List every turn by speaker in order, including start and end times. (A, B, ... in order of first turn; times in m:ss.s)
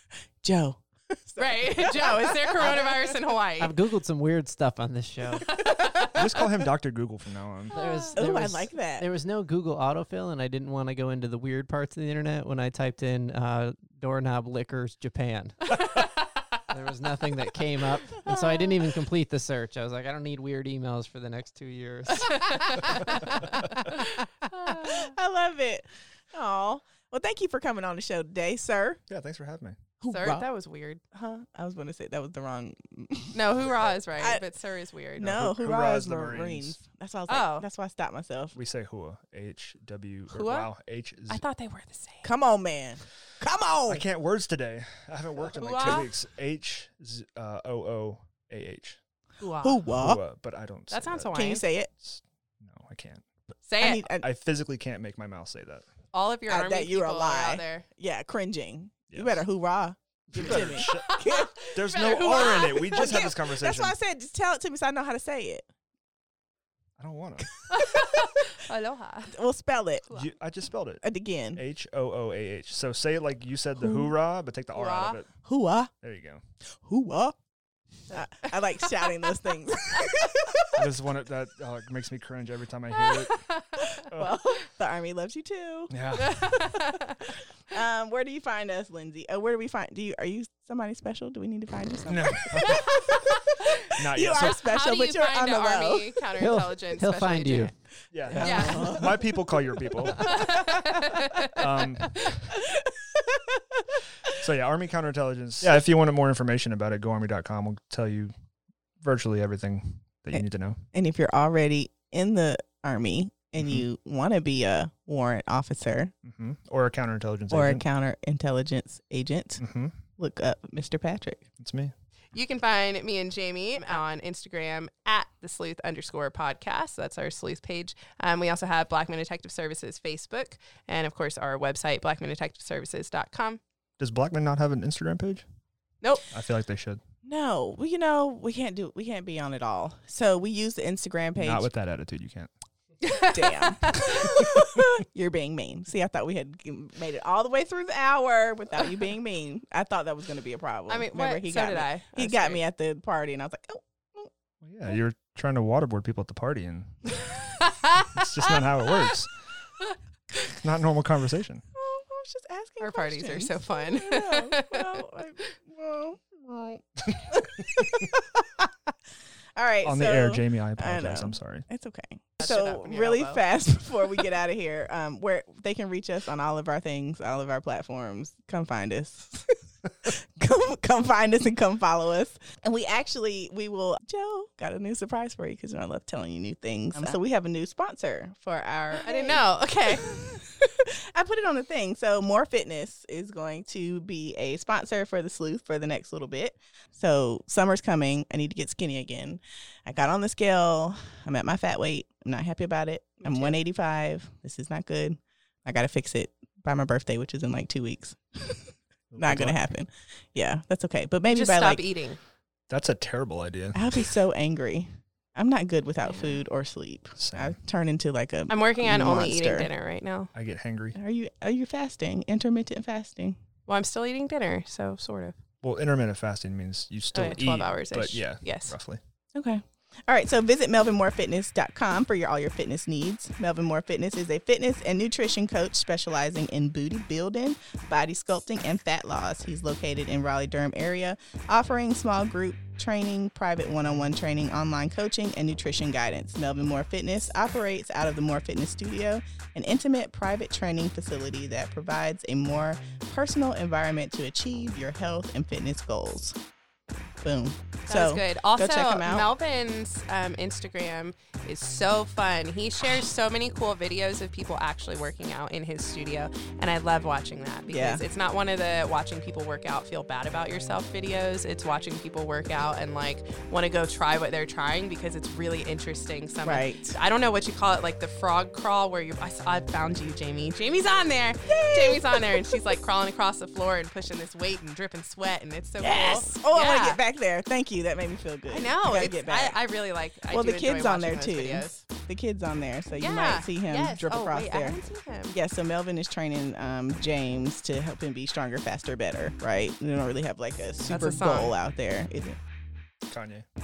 0:00.4-0:03.2 A
0:01.4-0:03.7 B
0:03.6-0:05.6 C
0:05.5-0:06.2 B
0:06.1-0:07.8 D
0:07.7-0:15.8 C
0:07.7-0:08.1 B
0:08.2-0:09.0 A
0:16.7-0:23.3 C
0:22.1-0:25.1 B
0:24.7-0:29.0 A
0:29.1-0:29.8 D
0:30.0-0:30.4 A
0:30.0-0:31.0 B
0:31.1-0:33.4 A
0:33.3-0:35.4 B
0:35.2-0:38.6 A
0:35.2-0:36.8 D
0:37.3-0:37.6 B
0:38.5-0:41.4 D
0:40.3-0:40.7 B
0:41.3-0:42.3 B
0:42.2-0:44.0 A
0:43.9-0:49.0 D
0:45.5-0:46.1 B
0:49.4-0:49.8 B
0:49.6-0:50.2 A
0:49.9-0:51.4 D
0:50.9-0:51.6 B
0:51.3-0:51.9 A
0:52.0-0:53.2 D
0:53.6-0:54.0 B
0:53.8-0:54.3 A
0:54.2-0:55.9 D
0:56.1-0:57.8 B
0:56.5-1:01.6 A
0:59.1-0:59.4 D
1:00.3-1:04.0 D
1:00.5-1:03.3 B
1:02.1-1:05.7 A
1:07.0-1:07.5 D
1:07.7-1:08.5 A
1:07.7-1:09.3 B
1:09.3-1:10.1 A
1:10.1-1:11.0 D
1:11.0-1:11.6 A
1:11.6-1:15.3 D
1:13.8-1:14.1 A
1:14.7-1:15.2 B
1:15.4-1:15.9 A
1:16.0-1:16.4 D
1:16.8-1:17.4 A
1:18.1-1:20.8 A
1:20.7-1:23.5 D
1:23.5-1:23.9 B
1:24.0-1:25.9 A
1:24.1-1:24.4 D
1:25.9-1:26.8 D
1:26.2-1:27.3 B
1:27.7-1:36.2 A
1:32.1-1:33.0 D
1:32.7-1:33.1 B
1:33.9-1:34.6 D
1:34.3-1:37.7 B
1:36.4-1:37.7 C
1:38.1-1:40.4 D
1:38.2-1:39.3 A
1:38.4-1:39.0 B
1:38.5-1:39.0 C
1:40.2-1:42.3 B
1:40.2-1:40.9 A
1:41.5-1:42.5 D
1:42.5-1:44.3 A
1:44.3-1:48.3 D
1:49.0-1:50.8 D
1:50.3-1:56.1 A
1:53.6-1:53.9 D
1:56.2-1:57.8 D
1:57.5-1:59.6 A
1:59.6-2:00.0 D
2:00.2-2:01.5 A
2:01.6-2:01.9 D
2:02.3-2:13.6 B
2:14.0-2:15.4 D
2:16.3-2:17.0 D
2:17.2-2:21.7 A
2:21.4-2:22.5 D
2:23.0-2:24.4 B
2:23.3-2:34.3 A
2:30.9-2:32.6 B
2:34.6-2:37.2 D
2:37.6-2:38.1 B
2:38.1-2:39.3 D
2:40.6-2:41.6 D
2:41.7-2:48.7 A
2:42.8-2:45.0 B
2:49.6-3:28.6 A
2:49.8-2:51.7 D
2:52.4-2:53.4 B
3:08.9-3:10.1 B
3:23.2-3:23.6 B
3:29.1-3:29.7 D
3:29.2-3:31.8 A
3:31.3-3:32.2 B
3:32.7-3:34.0 D
3:33.7-3:39.7 A
3:36.0-3:36.4 B
3:37.2-3:37.6 D
3:38.5-3:40.3 B
3:40.3-3:41.0 D
3:40.9-3:43.4 A
3:43.7-3:45.4 B
3:45.6-3:49.0 D
3:47.1-3:48.7 B
3:49.3-4:16.4 A
4:17.2-4:19.3 A
4:17.9-4:47.0 B
4:27.7-4:28.0 A
4:36.4-4:37.0 A
4:41.4-4:42.2 A
4:45.8-4:49.6 A
4:48.5-4:51.8 B
4:50.3-5:02.4 A
4:53.0-4:55.4 B
5:00.9-5:01.5 B
5:03.1-5:03.4 D